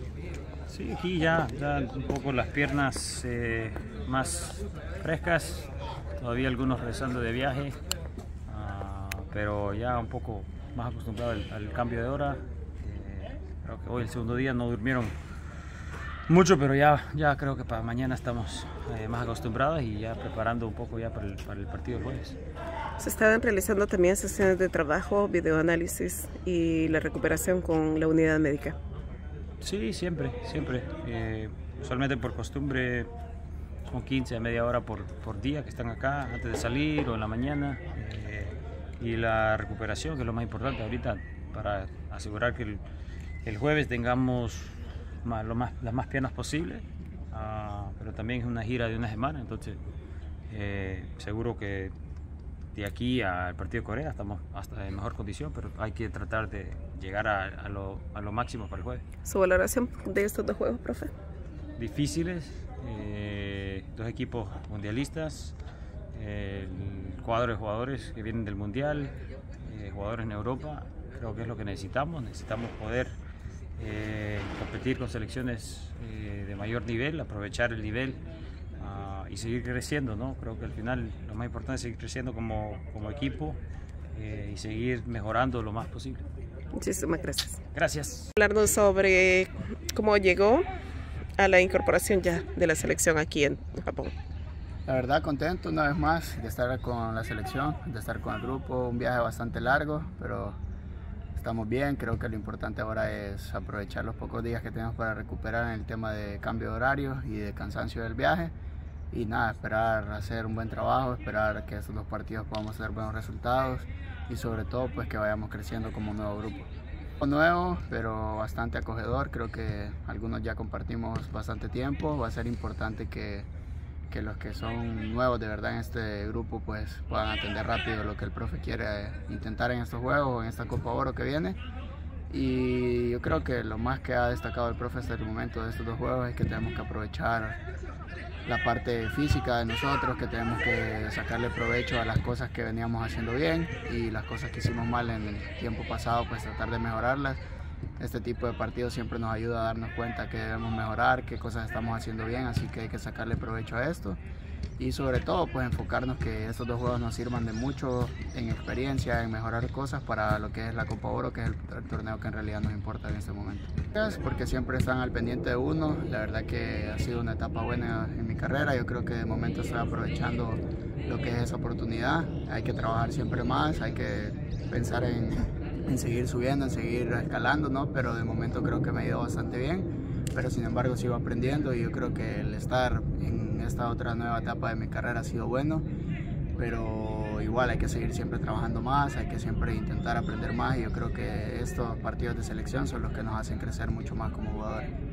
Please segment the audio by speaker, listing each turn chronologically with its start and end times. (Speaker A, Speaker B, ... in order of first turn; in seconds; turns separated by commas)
Speaker A: 0.7-7.8, Speaker A: 8.5-15.2, Speaker A: 16.3-22.4, Speaker B: 23.0-28.8, Speaker A: 29.6-33.1, Speaker A: 33.9-42.8, Speaker A: 43.4-49.8, Speaker A: 50.5-51.9, Speaker A: 52.7-59.0, Speaker B: 59.2-61.1, Speaker A: 61.8-65.6, Speaker A: 66.1-73.2, Speaker A: 73.8-78.2, Speaker A: 78.8-83.6, Speaker A: 84.1-86.2, Speaker B: 86.7-87.6, Speaker A: 87.7-88.3, Speaker B: 88.3-90.7, Speaker B: 91.4-94.1, Speaker C: 94.8-100.6, Speaker C: 101.3-108.5, Speaker C: 109.1-116.7, Speaker C: 117.2-123.5, Speaker C: 124.1-131.6, Speaker C: 132.3-137.6, Speaker C: 138.4-147.4, Speaker C: 148.0-154.2, Speaker C: 154.8-185.8, Speaker C: 186.5-194.9